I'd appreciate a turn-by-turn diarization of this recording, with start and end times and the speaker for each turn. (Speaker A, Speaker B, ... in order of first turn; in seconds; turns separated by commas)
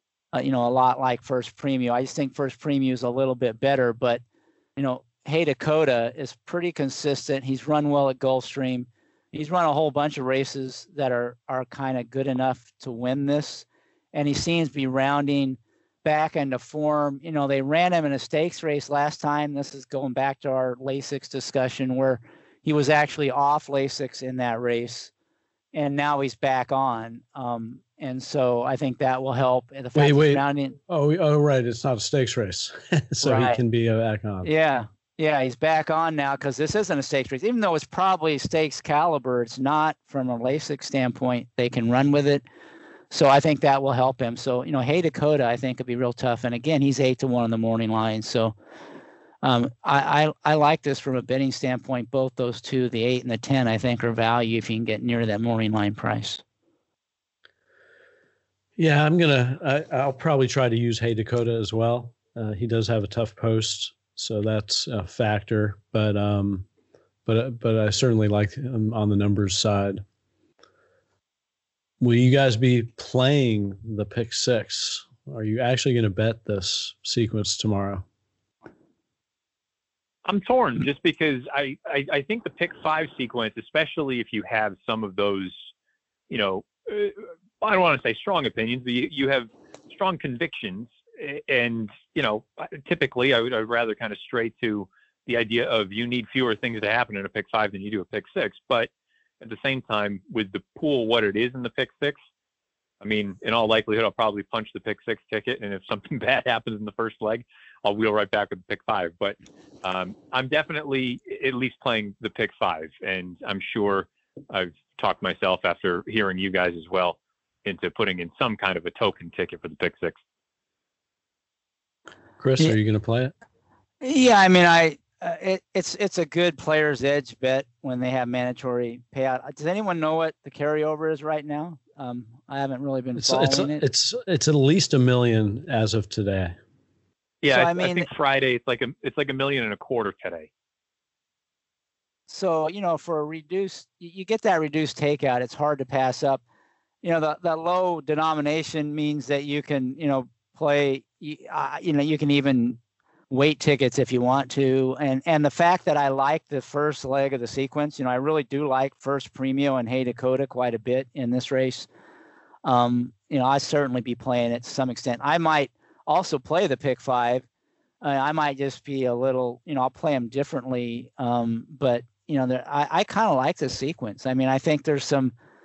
Speaker A: 0.3-4.2, Speaker A: 4.8-25.1, Speaker A: 25.7-30.8, Speaker B: 29.9-34.5, Speaker A: 33.2-33.6, Speaker A: 34.4-42.4, Speaker A: 43.1-48.5, Speaker A: 49.4-56.4, Speaker B: 58.8-66.7, Speaker B: 67.2-70.0, Speaker B: 72.0-78.0, Speaker C: 80.2-85.7, Speaker C: 86.3-98.9, Speaker C: 99.4-102.2, Speaker C: 103.0-120.2, Speaker B: 122.4-123.3, Speaker A: 124.0-133.8, Speaker B: 133.2-136.6, Speaker C: 137.4-140.5, Speaker A: 137.5-138.1, Speaker A: 142.3-146.4, Speaker A: 147.0-152.8, Speaker A: 153.3-161.9, Speaker A: 162.6-167.4, Speaker A: 168.0-175.3